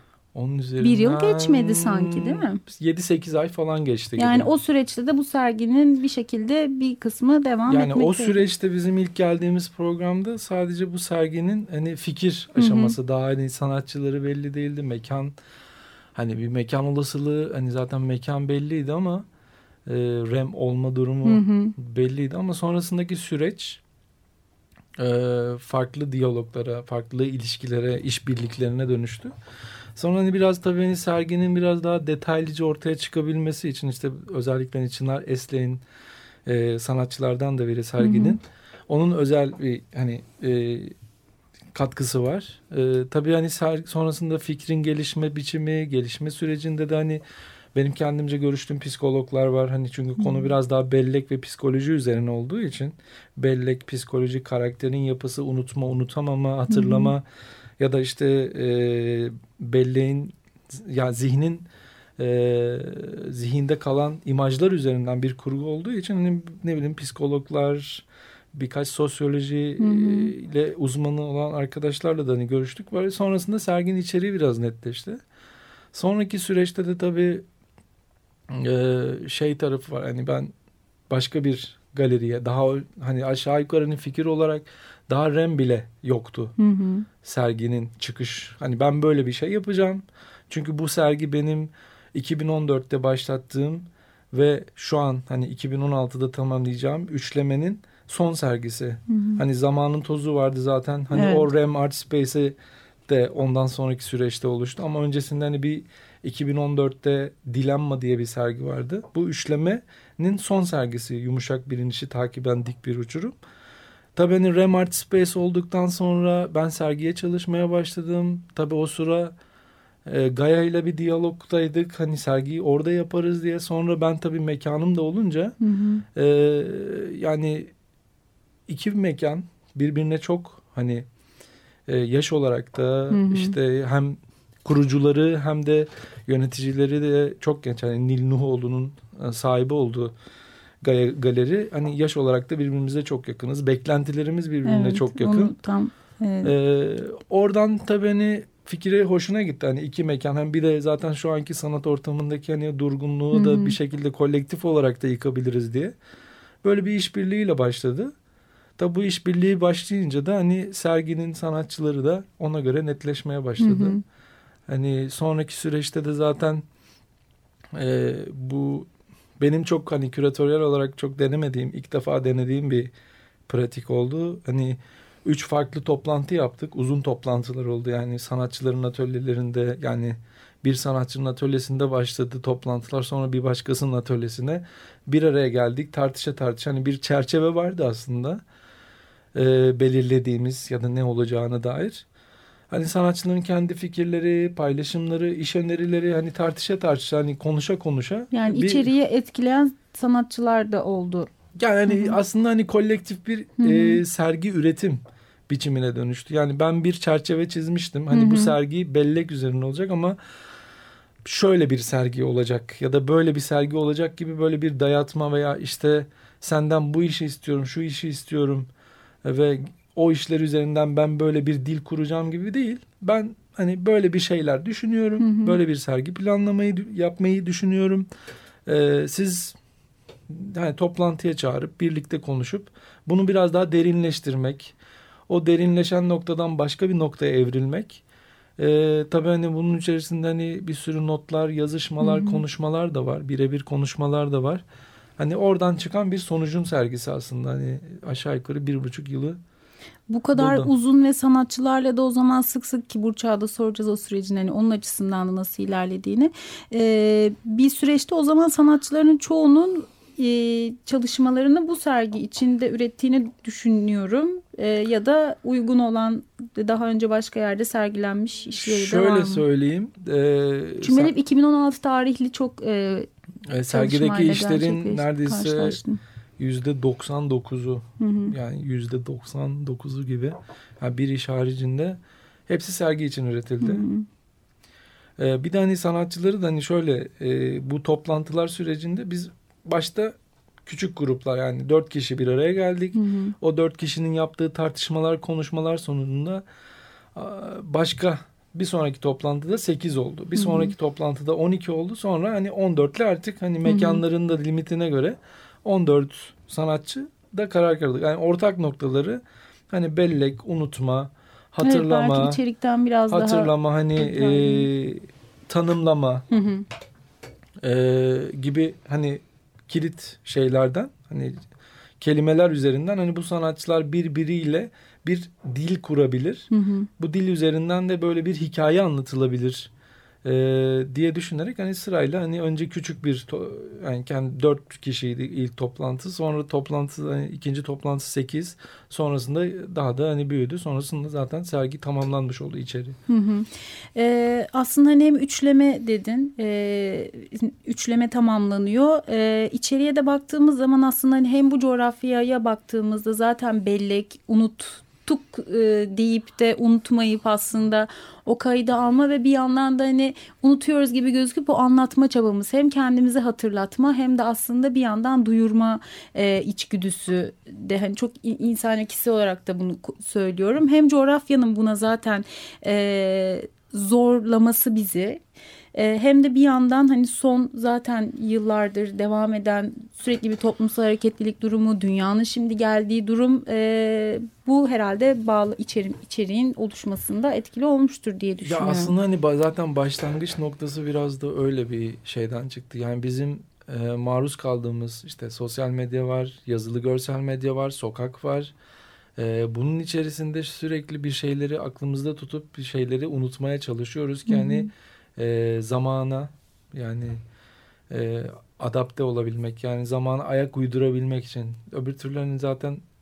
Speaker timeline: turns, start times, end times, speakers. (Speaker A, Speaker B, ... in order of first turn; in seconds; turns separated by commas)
Speaker A: 0.3-4.5, Speaker B: 0.8-2.6, Speaker B: 4.2-8.4, Speaker A: 7.7-15.3, Speaker B: 12.6-12.9, Speaker A: 16.1-19.2, Speaker A: 19.9-23.8, Speaker B: 21.2-21.7, Speaker A: 25.0-29.3, Speaker A: 29.9-35.8, Speaker A: 36.5-40.9, Speaker B: 38.0-38.4, Speaker A: 41.7-47.2, Speaker A: 47.7-57.2, Speaker B: 50.2-50.5, Speaker B: 56.7-57.1, Speaker A: 57.8-75.2, Speaker B: 69.8-70.3, Speaker A: 75.9-77.5, Speaker A: 78.5-80.5, Speaker A: 81.1-86.5, Speaker B: 86.6-87.0, Speaker A: 87.2-102.5, Speaker B: 99.1-99.4, Speaker B: 101.1-101.5, Speaker A: 103.1-113.4, Speaker A: 114.1-119.3, Speaker A: 120.0-125.5, Speaker B: 125.6-126.0, Speaker A: 126.1-127.7, Speaker A: 128.7-131.1, Speaker A: 131.9-140.1, Speaker B: 133.1-133.5, Speaker A: 140.8-145.5, Speaker B: 144.6-146.5, Speaker A: 146.4-155.9, Speaker B: 153.3-153.8, Speaker A: 156.6-158.1, Speaker A: 158.8-164.0, Speaker B: 163.6-164.0, Speaker A: 164.7-166.6, Speaker A: 167.7-172.9, Speaker A: 173.5-188.4, Speaker A: 189.3-192.0, Speaker A: 192.7-198.9, Speaker B: 198.3-201.3, Speaker A: 201.6-210.2, Speaker B: 201.9-202.2, Speaker B: 203.6-204.0, Speaker B: 208.1-208.6, Speaker A: 211.2-218.7, Speaker A: 219.2-228.1, Speaker B: 225.2-225.6, Speaker A: 228.7-229.5, Speaker A: 230.3-234.7, Speaker A: 235.3-238.0, Speaker A: 238.6-244.6, Speaker B: 242.0-242.4, Speaker A: 245.2-249.4, Speaker B: 250.1-269.4, Speaker A: 250.3-250.7, Speaker A: 268.6-271.1, Speaker B: 270.8-273.1, Speaker A: 273.5-275.8, Speaker B: 273.7-276.0, Speaker A: 276.4-283.9, Speaker B: 278.0-278.3, Speaker B: 283.6-284.1, Speaker A: 285.2-290.1, Speaker A: 290.6-296.4, Speaker B: 292.9-293.4, Speaker A: 297.1-312.4, Speaker B: 300.4-300.7, Speaker B: 303.6-304.0, Speaker B: 311.6-314.7, Speaker A: 313.1-316.2, Speaker B: 316.3-316.6, Speaker A: 317.6-321.4, Speaker A: 322.0-329.7, Speaker B: 326.5-326.9, Speaker A: 330.2-343.0, Speaker B: 343.1-375.2, Speaker B: 375.8-388.9, Speaker A: 388.4-398.5, Speaker A: 399.2-407.2, Speaker B: 404.3-404.7, Speaker A: 407.9-412.8